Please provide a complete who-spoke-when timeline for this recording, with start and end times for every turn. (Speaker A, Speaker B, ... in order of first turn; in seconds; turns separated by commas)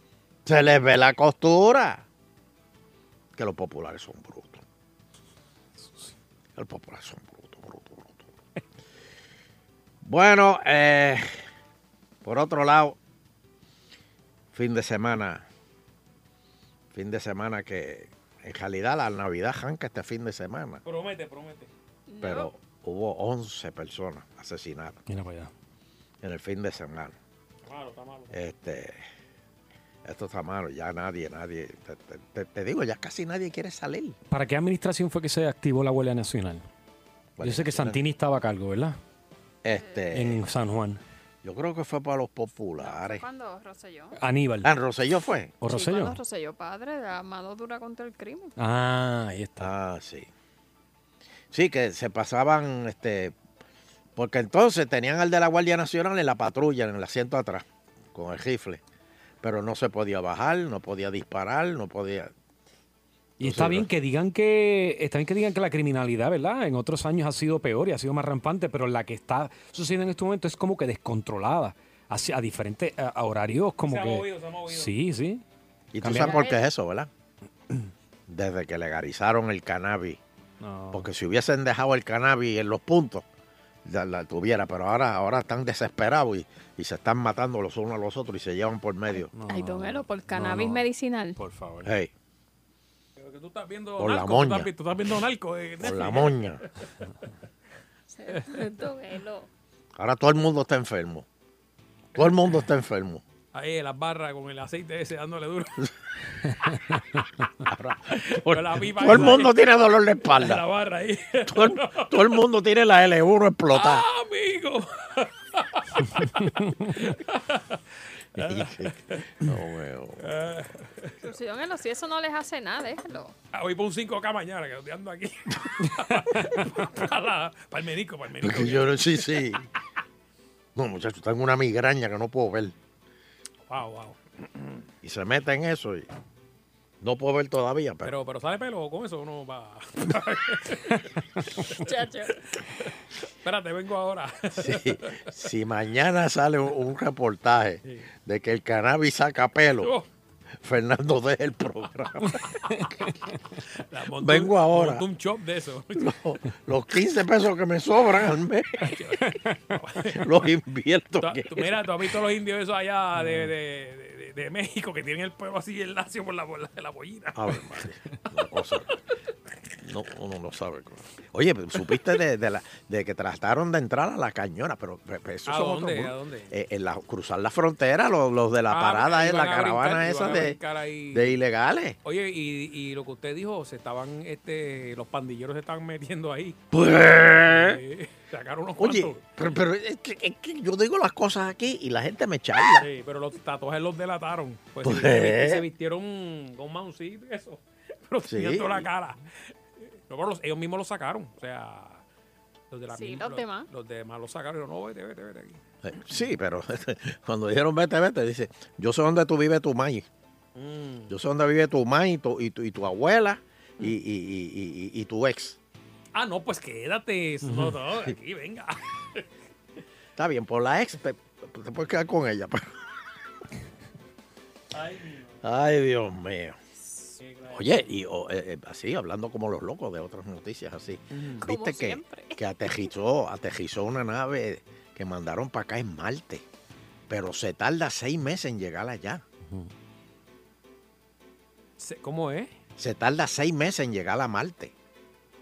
Speaker A: 0.5-2.0, Speaker A: 3.4-4.6, Speaker A: 6.6-8.2, Speaker A: 10.0-11.3, Speaker A: 12.2-13.0, Speaker A: 14.5-15.4, Speaker A: 16.9-20.8, Speaker B: 20.8-21.7, Speaker C: 22.1-22.5, Speaker A: 22.2-25.0, Speaker D: 25.1-25.5, Speaker A: 26.2-27.1, Speaker B: 27.7-28.4, Speaker A: 28.3-29.0, Speaker A: 30.1-34.2, Speaker D: 34.3-36.6, Speaker A: 37.4-38.0, Speaker D: 37.4-39.0, Speaker A: 39.6-40.4, Speaker C: 39.7-40.0, Speaker D: 40.1-41.0, Speaker A: 41.4-43.2, Speaker C: 42.8-44.2, Speaker D: 44.2-44.7, Speaker A: 44.6-45.5, Speaker D: 45.6-46.2, Speaker C: 45.7-48.5, Speaker D: 48.6-49.7, Speaker A: 49.6-50.3, Speaker A: 51.5-53.4, Speaker A: 54.2-58.8, Speaker A: 59.4-62.3, Speaker D: 63.4-75.4, Speaker A: 63.4-63.9, Speaker B: 73.8-74.9, Speaker A: 75.9-77.1, Speaker D: 76.0-76.4, Speaker C: 76.2-76.6, Speaker A: 78.3-80.2, Speaker D: 80.6-81.1, Speaker A: 80.9-83.2, Speaker A: 83.8-89.3, Speaker D: 89.3-90.9, Speaker C: 89.5-91.4, Speaker D: 91.4-91.9, Speaker A: 91.8-92.1, Speaker B: 93.2-96.5, Speaker A: 94.0-94.7, Speaker A: 95.8-96.6, Speaker C: 98.1-99.5, Speaker B: 98.3-98.6, Speaker A: 100.0-101.3, Speaker A: 102.2-103.2, Speaker B: 103.5-105.8, Speaker A: 107.7-110.6, Speaker B: 108.3-109.6, Speaker B: 110.3-112.2, Speaker A: 111.5-114.1, Speaker B: 113.7-117.8, Speaker B: 118.4-119.2, Speaker A: 118.4-120.3, Speaker B: 120.2-121.3, Speaker C: 121.2-123.3, Speaker B: 123.5-129.0, Speaker A: 128.4-129.6, Speaker A: 130.8-132.8, Speaker B: 133.7-134.8, Speaker A: 135.0-136.1, Speaker A: 137.0-138.1, Speaker B: 138.0-141.0, Speaker B: 141.6-145.3, Speaker C: 141.7-142.4, Speaker A: 144.6-149.9, Speaker B: 149.8-150.1, Speaker A: 150.6-152.4, Speaker B: 153.8-156.1, Speaker A: 154.2-155.0, Speaker A: 156.0-158.9, Speaker B: 158.8-160.3, Speaker A: 160.2-161.8, Speaker B: 161.2-167.4, Speaker A: 167.3-168.9, Speaker A: 169.8-180.6, Speaker B: 175.5-176.5, Speaker B: 178.7-181.4, Speaker A: 181.1-182.0, Speaker B: 182.0-186.6, Speaker A: 186.7-187.8, Speaker B: 187.4-189.2, Speaker A: 188.8-192.9, Speaker B: 192.7-199.2, Speaker A: 194.8-195.7, Speaker A: 198.3-198.9, Speaker B: 200.1-202.0, Speaker B: 202.7-205.6, Speaker C: 202.9-203.7, Speaker A: 205.8-210.1, Speaker B: 210.6-211.1, Speaker A: 211.1-215.6, Speaker B: 216.1-219.3, Speaker A: 220.2-222.7, Speaker B: 224.7-225.4, Speaker A: 225.4-226.6, Speaker C: 226.9-227.2, Speaker B: 227.2-227.9, Speaker A: 227.5-236.4, Speaker B: 231.1-231.4, Speaker C: 231.4-232.8, Speaker A: 237.1-239.2, Speaker B: 241.8-242.5, Speaker A: 242.8-244.7